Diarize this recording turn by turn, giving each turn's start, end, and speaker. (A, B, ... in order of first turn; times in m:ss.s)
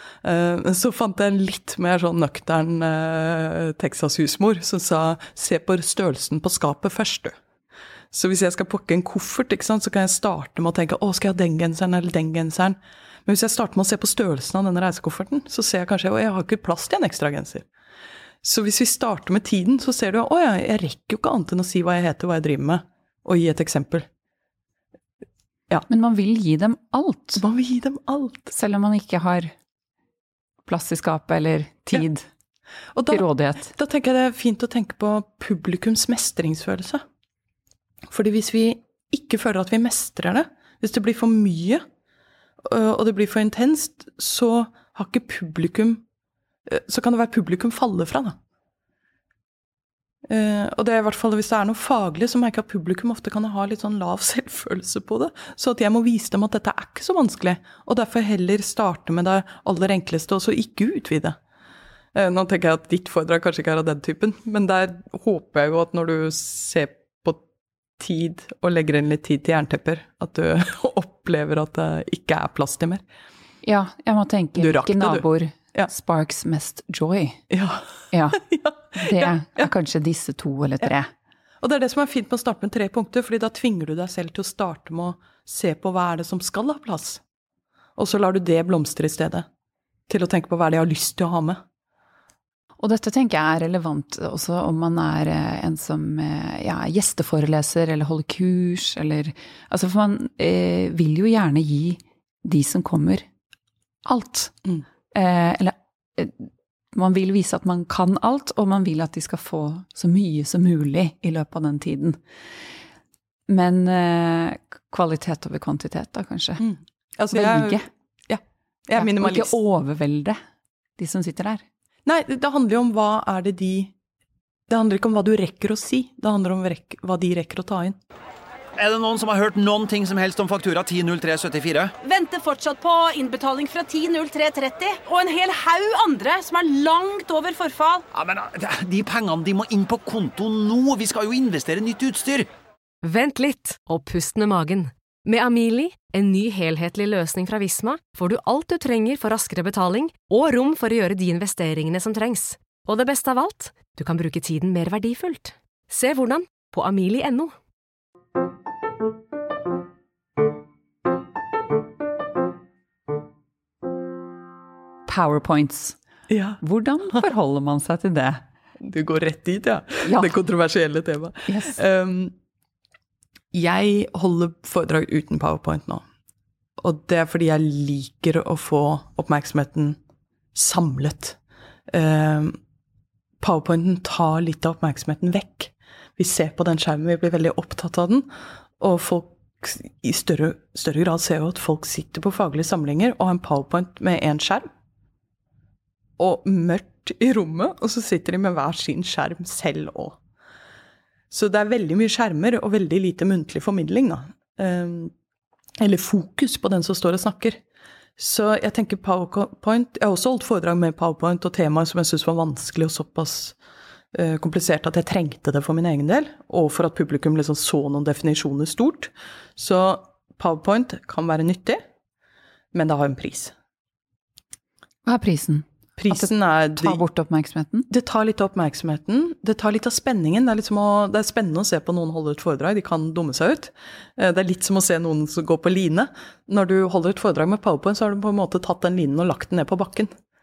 0:00.2-0:07.4 A
0:08.1-0:17.6 A
0:18.4-0:24.1 A
0:25.9-0:27.4 B
0:27.4-0:28.5 A
0:28.5-0:29.5 B
0:30.7-0:32.2 B
0:32.9-0:37.0 A
0:33.1-0:33.7 B
0:38.1-0:41.8 A
0:42.6-0:46.0 A
0:46.6-0:48.4 A
0:50.3-1:01.4 A
1:02.1-1:07.4 A
1:08.0-1:13.0 A
1:13.6-1:17.4 B
1:14.6-1:15.9 A
1:17.5-1:19.7 A
1:18.1-1:18.4 B
1:18.9-1:21.1 B
1:21.6-1:27.2 A
1:28.0-1:29.4 A
1:30.1-1:31.6 A
1:32.8-1:43.2 B
1:44.0-1:44.5 B
1:45.1-1:52.2 B
1:53.5-1:56.6 B
1:56.6-1:59.6 A
1:57.3-1:57.9 B
1:58.9-2:00.4 B
2:01.0-2:01.6 B
2:02.0-2:03.9 A
2:04.7-2:08.0 A
2:08.8-2:11.9 C
2:12.0-2:18.1 D
2:18.1-2:22.5 C
2:23.0-2:37.5 E
2:45.1-2:46.0 B
2:46.3-2:46.6 A
2:46.6-2:48.4 B
2:48.8-2:52.3 A
2:50.0-2:50.4 B
2:51.5-2:51.8 B
2:53.5-2:56.0 A
2:56.8-3:00.0 A
3:00.5-3:01.4 A
3:01.9-3:02.6 A
3:03.4-3:14.7 A
3:16.2-3:20.2 A
3:21.3-3:25.1 A
3:25.8-3:27.6 A
3:28.2-3:33.6 A
3:34.1-3:41.8 A
3:42.7-3:43.5 A
3:45.0-3:47.9 B
3:46.0-3:47.0 A
3:47.9-4:00.1 A